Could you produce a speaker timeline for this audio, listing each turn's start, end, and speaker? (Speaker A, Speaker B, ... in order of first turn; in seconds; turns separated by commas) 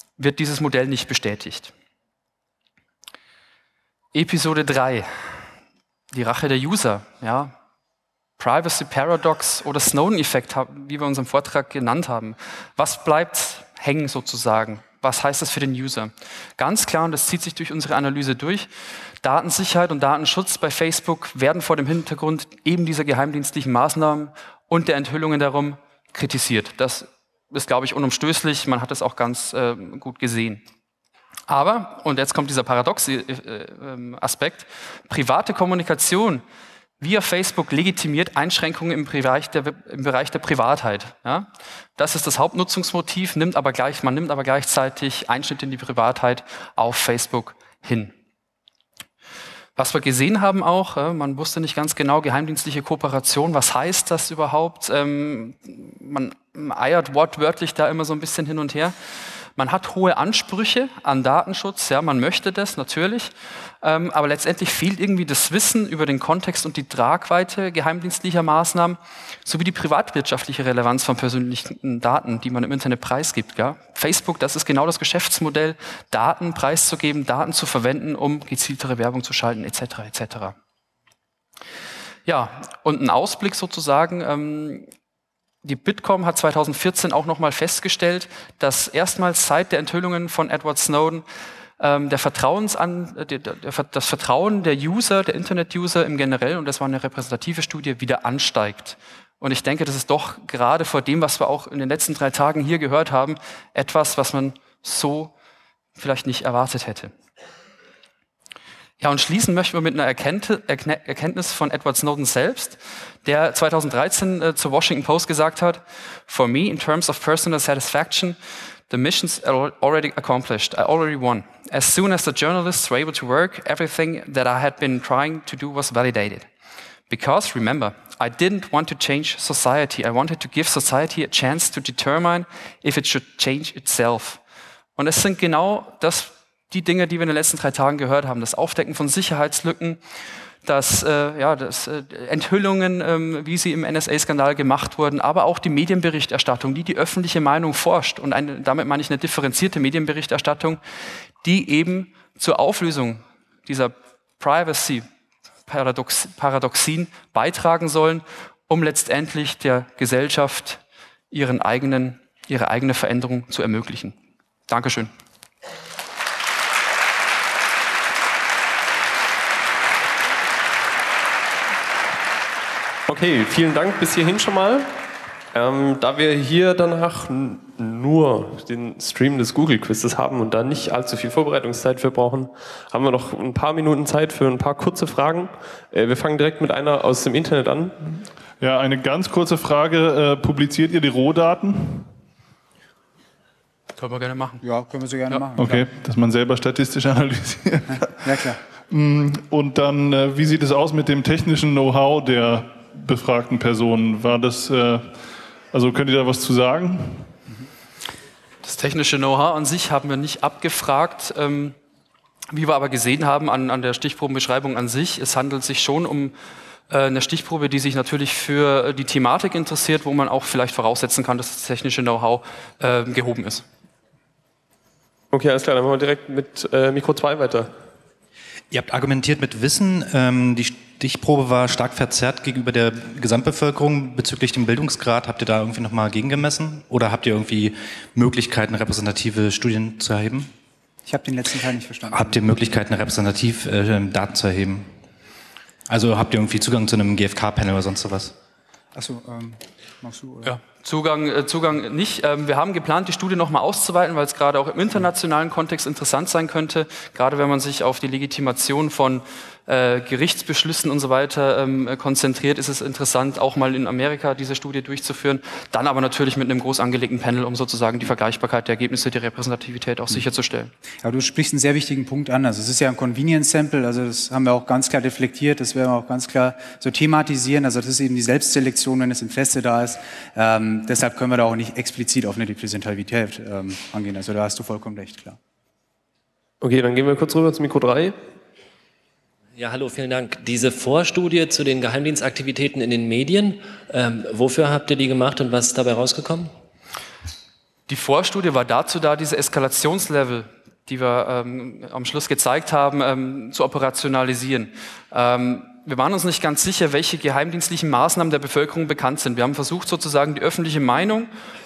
Speaker A: 0.2-1.7, Speaker A: 4.1-5.1, Speaker A: 6.1-7.5, Speaker A: 8.4-18.7, Speaker A: 19.2-30.6, Speaker A: 31.5-36.4, Speaker A: 37.0-48.1, Speaker A: 49.8-58.9, Speaker A: 59.6-80.5, Speaker A: 82.2-84.8, Speaker A: 85.6-91.2, Speaker A: 91.8-105.3, Speaker A: 106.0-107.1, Speaker A: 109.0-118.4, Speaker A: 118.9-126.5, Speaker A: 127.1-134.4, Speaker A: 135.0-140.0, Speaker A: 140.6-150.8, Speaker A: 151.4-155.0, Speaker A: 155.7-164.2, Speaker A: 164.7-165.1, Speaker B: 173.1-174.9, Speaker B: 175.5-187.9, Speaker C: 188.6-192.1, Speaker A: 194.0-194.6, Speaker D: 194.6-195.9, Speaker C: 195.6-198.3, Speaker D: 198.2-198.6, Speaker C: 198.9-205.2, Speaker C: 205.7-207.3, Speaker A: 208.6-211.7, Speaker A: 212.5-216.3, Speaker A: 216.9-223.7, Speaker B: 225.3-227.7, Speaker E: 228.7-240.5, Speaker D: 241.1-242.4, Speaker E: 242.1-244.9, Speaker E: 245.9-248.3, Speaker D: 248.9-250.6, Speaker A: 250.4-270.7, Speaker D: 271.0-285.4, Speaker B: 286.6-288.1, Speaker F: 289.6-296.5, Speaker A: 297.9-311.3